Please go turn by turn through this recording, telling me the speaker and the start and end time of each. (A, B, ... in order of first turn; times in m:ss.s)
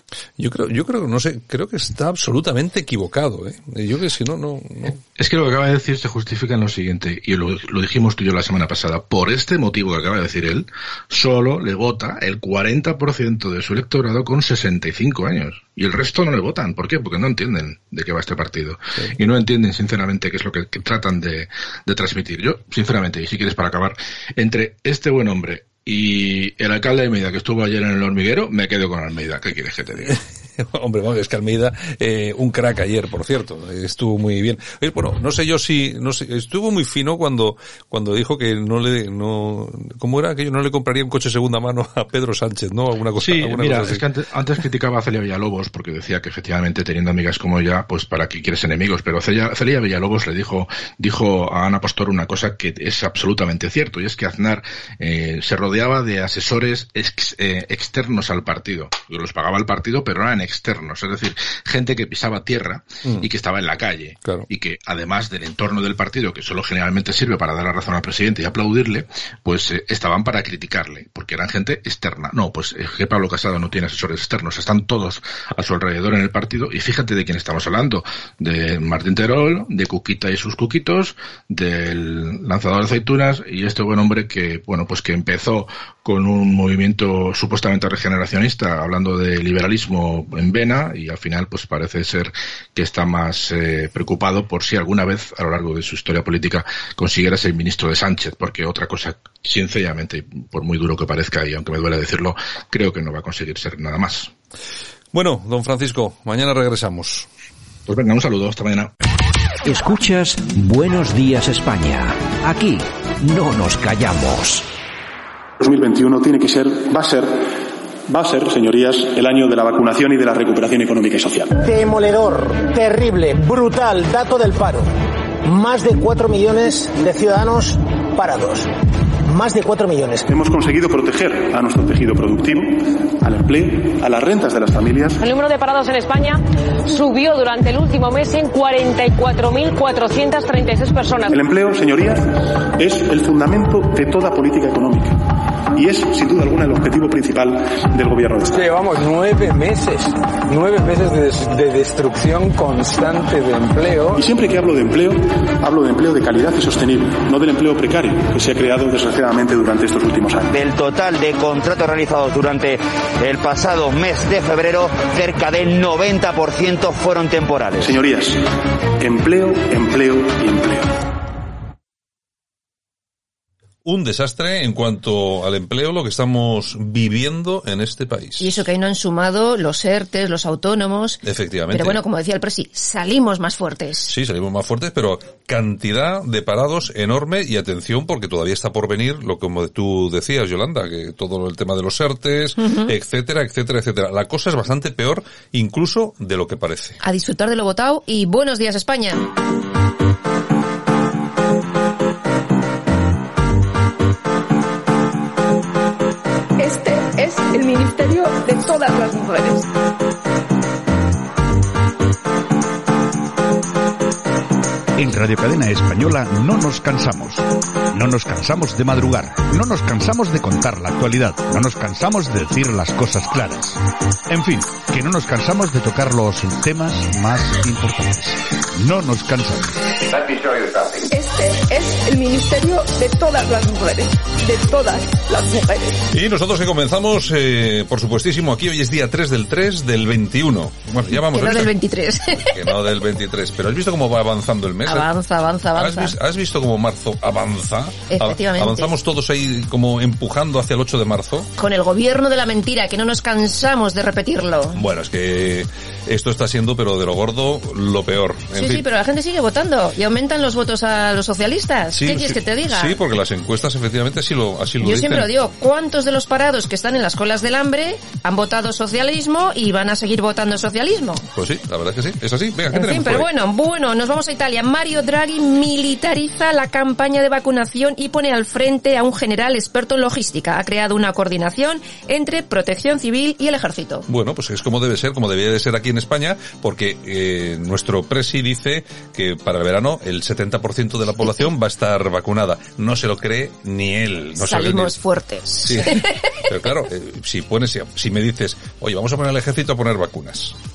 0:00.4-0:05.0 A
0:05.2-0:30.2 B
0:30.1-0:44.0 A
0:43.2-1:44.3 B
1:45.1-1:47.3 A
1:47.9-1:48.9 B
1:49.6-1:54.6 C
1:55.6-1:57.4 D
1:58.1-2:01.6 D
2:01.6-2:04.9 E
2:05.5-2:08.6 E
2:09.3-2:10.2 E
2:10.3-2:15.2 D
2:15.2-2:21.3 F
2:21.3-2:25.2 D
2:25.7-2:28.6 D
2:28.5-2:34.2 G
2:34.1-2:40.6 D
2:40.5-2:47.9 H
2:47.8-2:48.4 D
2:49.0-2:50.9 D
2:53.8-2:58.5 A
2:58.4-3:04.1 I
3:01.2-3:02.0 A
3:04.1-3:17.0 A
3:12.6-3:12.9 I
3:17.0-3:19.2 I
3:26.6-3:29.7 J
3:35.0-3:49.8 K
3:50.1-3:50.8 H
3:51.1-3:56.0 J
3:56.1-4:01.7 A
4:01.1-4:02.8 I
4:02.4-4:05.1 A
4:04.8-4:06.2 I
4:05.7-4:11.5 A
4:08.1-4:08.9 I
4:11.6-4:14.8 I
4:14.7-4:18.8 A
4:18.5-4:23.0 I
4:21.9-4:25.3 A
4:24.8-4:31.2 I
4:31.3-4:33.3 A
4:32.7-4:44.0 I
4:44.1-4:55.0 A
4:54.4-4:56.2 I
4:55.6-5:00.5 A